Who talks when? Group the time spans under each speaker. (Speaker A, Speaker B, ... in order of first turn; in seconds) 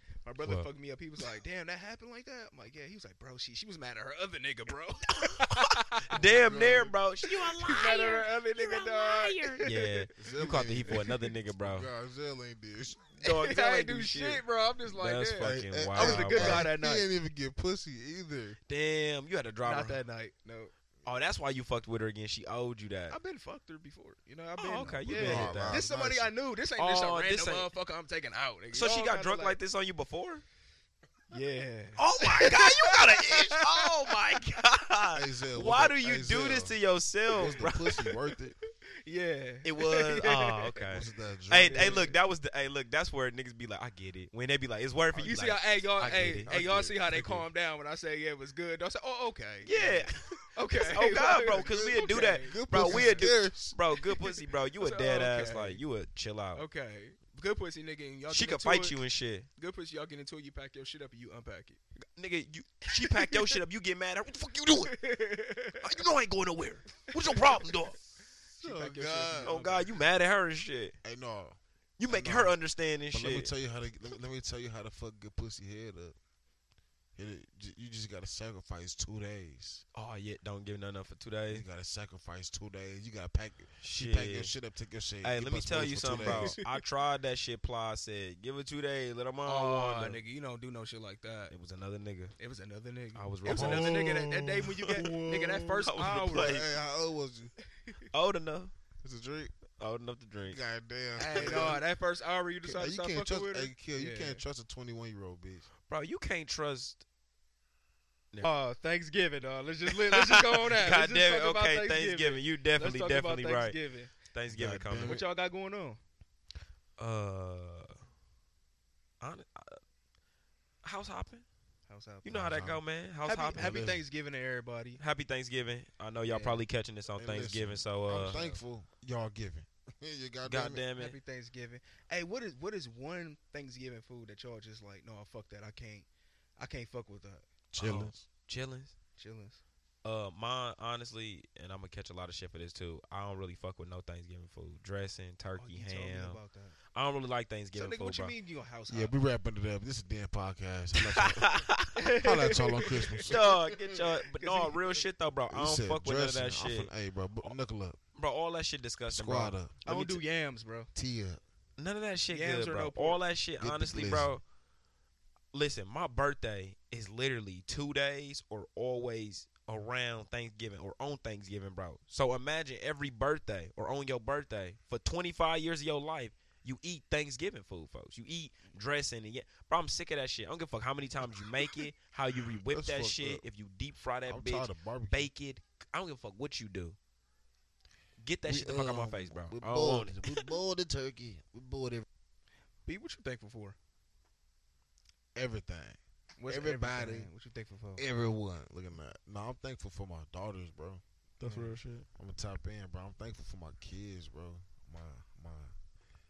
Speaker A: 0.2-6.1, 7.3-10.0, 13.2-17.1, 19.6-20.7, 23.1-29.6, 31.3-34.2, 37.4-37.7, 39.0-41.0, 41.6-42.2, 45.2-53.2, 54.8-55.8, 56.5-59.0, 59.6-61.8, 62.9-63.6, 64.8-65.8, 68.6-69.8, 86.2-86.8, 89.4-91.5, 92.4-96.6, 101.2-104.4, 108.4-114.1, 115.0-116.0, 121.9-122.3, 123.2-125.0, 126.3-126.6, 128.2-128.6, 130.9-136.1, 136.6-137.5, 139.2-139.6, 145.5-146.8, 147.7-149.1, 151.9-153.3, 154.4-155.0, 159.8-160.9, 162.3-163.2, 192.8-193.8, 196.4-198.0, 201.4-201.8
Speaker B: 0.4-0.7, 5.2-11.9, 13.2-16.7, 18.7-20.0, 21.0-23.1, 24.6-25.8, 26.8-27.7, 28.7-30.4, 32.0-38.1, 39.6-46.5, 49.6-56.6, 58.3-59.5, 62.2-65.0, 65.8-68.0, 69.4-70.9, 72.0-73.5, 79.9-81.7, 83.8-84.5, 85.2-90.2, 91.5-92.3, 93.1-94.0, 94.8-95.0, 95.8-96.7, 98.1-98.7, 99.8-100.6, 101.3-101.7, 105.9-107.0, 110.0-115.2, 117.0-118.0, 119.2-119.8, 120.8-121.4, 122.2-123.9, 125.0-128.4, 130.4-131.2, 137.8-138.9, 140.0-146.4, 146.9-148.3, 151.0-152.0, 153.2-156.9, 158.2-160.2, 161.8-164.4, 165.5-187.0, 188.2-190.5, 201.4-202.1
Speaker C: 6.1-6.9, 10.2-13.2, 15.4-18.6, 25.1-26.3, 35.1-36.8, 37.3-38.5, 40.9-42.1, 46.0-47.5, 51.6-53.8, 68.5-69.6, 71.0-72.6, 73.1-76.2, 77.1-79.8, 81.5-86.6, 93.5-97.5, 99.0-99.5, 100.5-101.8, 102.6-105.7, 114.5-115.2, 122.3-122.8, 123.5-124.0, 127.2-130.8, 137.7-138.2, 148.9-154.0, 155.5-158.0, 159.1-159.8, 160.9-161.4, 163.6-164.4, 182.3-183.4, 184.2-185.3, 188.4-192.1, 195.3-197.3, 197.9-201.0, 202.2-205.7